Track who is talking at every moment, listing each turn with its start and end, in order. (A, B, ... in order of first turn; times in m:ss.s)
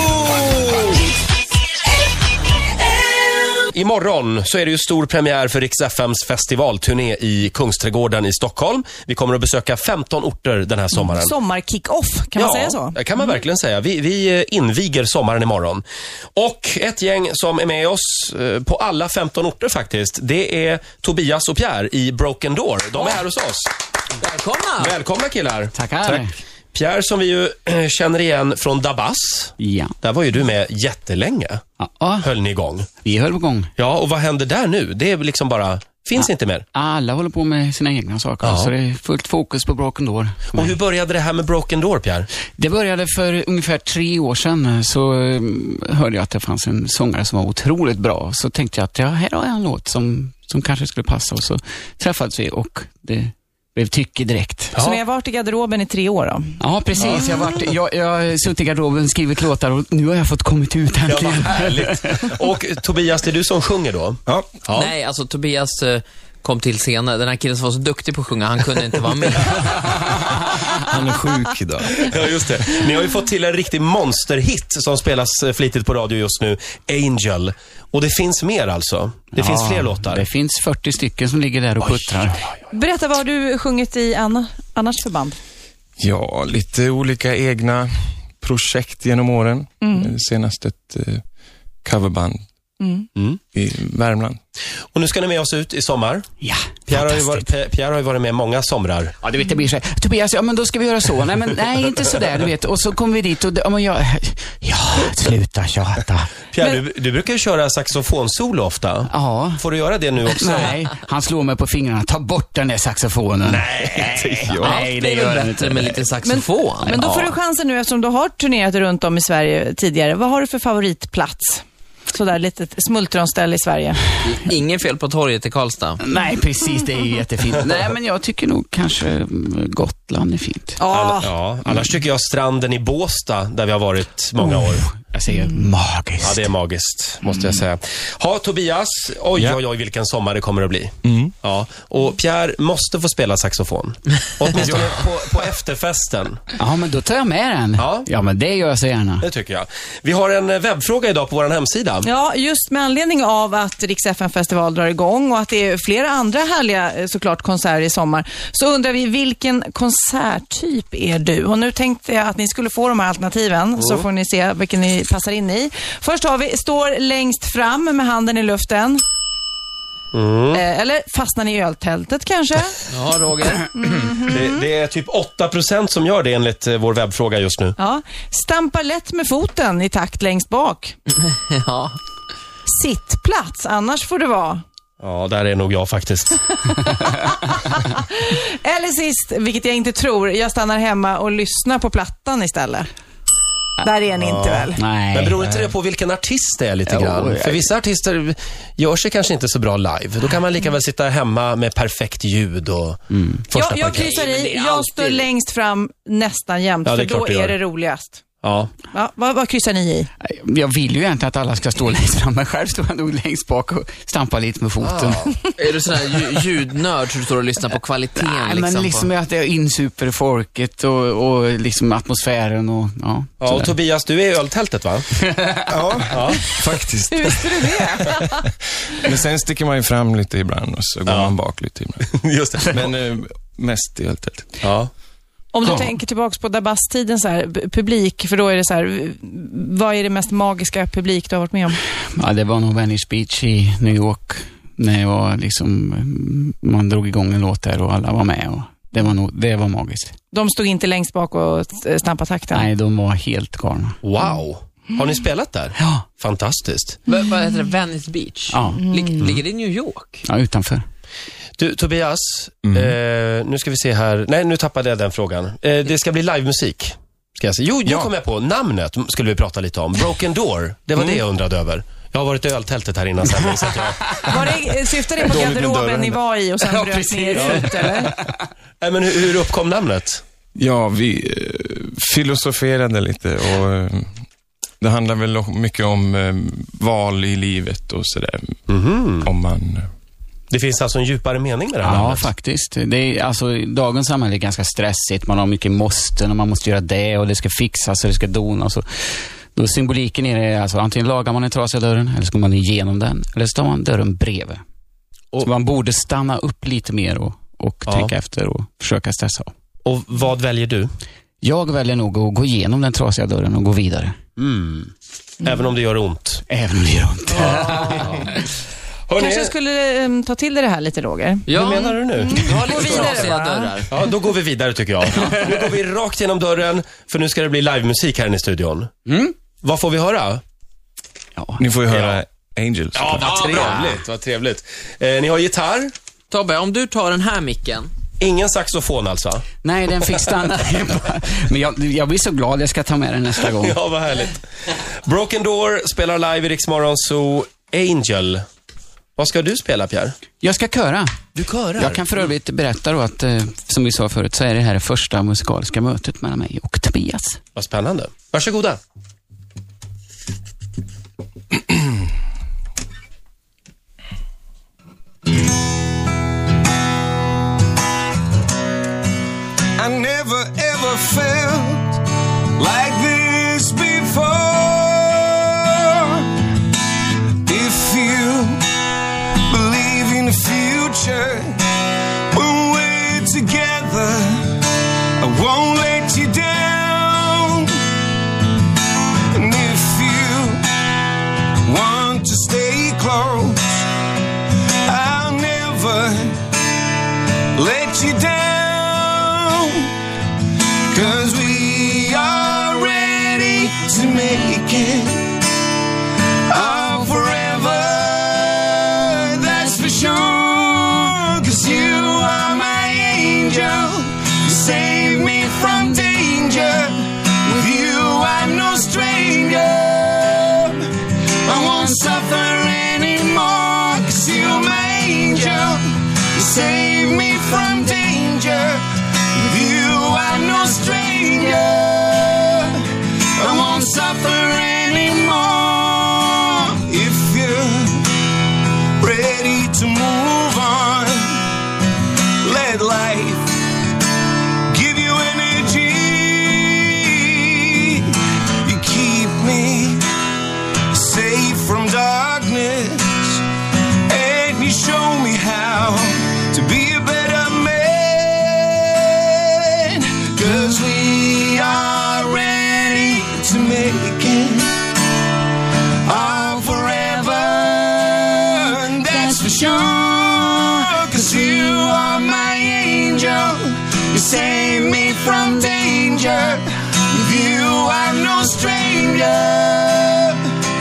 0:00.3-0:00.8 A
0:03.7-0:11.3 A
0:11.0-0:13.0 B
0:12.4-0:15.8 A
0:16.4-0:23.7 A
0:24.2-0:24.9 C
0:24.8-0:31.6 A
0:25.7-0:26.3 D
0:29.6-0:30.0 D
0:31.8-0:32.3 D
0:32.2-0:32.9 A
0:33.0-0:33.7 D
0:33.8-0:36.6 A
0:36.2-0:40.8 D
0:38.4-0:38.7 A
0:40.5-0:42.3 A
0:42.6-0:54.8 D
0:54.7-0:55.0 A
0:54.8-0:56.6 B
0:56.6-1:02.2 D
0:57.0-0:57.2 A
1:01.1-1:04.9 A
1:04.7-1:10.0 C
1:10.6-1:12.1 E
1:12.0-1:20.3 A
1:19.4-1:22.4 D
1:21.8-1:22.3 A
1:22.7-1:25.4 B
1:26.0-1:31.2 E
1:29.8-1:30.1 B
1:31.8-1:32.4 E
1:32.8-1:33.1 B
1:33.6-1:34.4 E
1:35.0-1:36.2 A
1:36.4-1:37.5 D
1:36.9-1:39.1 A
1:39.2-1:46.3 D
1:46.5-1:50.8 A
1:49.1-1:49.6 D
1:50.3-1:56.1 D
1:53.4-1:54.4 A
1:54.0-1:54.9 E
1:54.6-1:57.3 C
1:56.2-2:04.0 B
2:04.2-2:06.0 C
2:06.0-2:10.8 D
2:10.8-2:11.3 B
2:10.9-2:14.8 A
2:14.6-2:16.5 D
2:16.2-2:26.4 A
2:21.0-2:21.3 E
2:26.6-2:29.2 D
2:27.8-2:28.1 A
2:29.2-2:32.1 A
2:32.0-2:49.0 B
2:50.1-2:50.6 A
2:50.5-2:52.9 B
2:52.9-2:53.7 C
2:53.8-2:54.5 B
2:54.2-2:57.8 A
2:57.8-3:01.0 B
3:01.4-3:02.0 C
3:02.7-3:04.6 B
3:05.0-3:06.4 A
3:06.9-3:12.9 B
3:13.8-3:14.8 B
3:14.2-3:24.1 A
3:14.8-3:15.7 D
3:16.9-3:17.7 D
3:23.1-3:23.4 D
3:23.5-3:28.2 B
3:23.9-3:25.3 C
3:26.8-3:27.6 A
3:28.4-3:28.7 A
3:28.9-3:30.1 B
3:30.2-3:35.4 D
3:34.8-3:35.4 A
3:35.6-3:39.1 C
3:38.2-3:43.7 D
3:43.4-3:45.1 A
3:45.7-3:52.0 E
3:45.8-3:46.5 A
3:47.1-3:48.4 B
3:51.1-3:51.4 A
3:52.0-3:52.7 A
3:52.7-3:54.6 E
3:54.6-3:54.9 A
3:55.5-4:01.8 B
4:02.2-4:10.2 D
4:10.3-4:12.6 B
4:12.5-4:14.0 D
4:14.0-4:17.0 A
4:15.8-4:16.0 D
4:17.1-4:20.2 C
4:18.5-4:18.8 D
4:20.2-4:20.9 D
4:21.6-4:34.4 A
4:34.2-4:38.1 B
4:35.3-4:36.2 E
4:36.6-4:38.1 D
4:37.3-4:37.7 A
4:38.8-4:40.2 A
4:40.6-4:44.1 E
4:44.8-4:48.6 E
4:48.7-4:49.3 A
4:49.2-4:49.9 E
4:50.5-4:52.3 A
4:51.8-5:04.6 D
5:05.3-5:09.5 D
5:07.9-5:08.1 A
5:09.8-5:10.9 A
5:11.4-5:14.2 D
5:14.4-5:16.4 A
5:16.5-5:18.4 D
5:17.4-5:18.2 A
5:19.1-5:19.5 A
5:19.2-5:23.8 B
5:21.5-5:23.9 C
5:21.6-5:23.3 A
5:23.9-5:28.9 A
5:29.1-5:29.3 D
5:29.6-5:30.4 A
5:31.4-5:31.6 D
5:31.6-5:33.5 E
5:31.9-5:32.2 A
5:32.9-5:35.9 A
5:33.5-5:33.9 C
5:36.3-5:37.9 C
5:38.2-5:39.4 A
5:39.6-5:43.8 D
5:43.6-5:48.4 A
5:49.2-5:50.2 A
5:50.4-5:51.2 D
5:51.4-5:52.0 A
5:51.8-5:57.4 D
5:57.6-5:58.8 A
6:09.8-6:12.0 F
6:12.6-6:16.3 F
6:17.5-6:18.6 F
6:19.5-6:21.6 F
6:22.3-6:27.8 F
6:29.3-6:30.6 F
6:31.7-6:33.8 F
6:34.8-6:36.4 F
6:37.5-6:39.9 F
6:40.9-6:45.4 F
6:46.5-7:00.9 F
7:01.5-7:08.8 F
7:09.4-7:18.2 F
7:19.0-7:21.4 F
7:22.4-7:23.6 F
7:24.7-7:30.0 F
7:30.9-7:33.4 F
7:34.1-7:44.7 F
7:46.1-8:00.4 F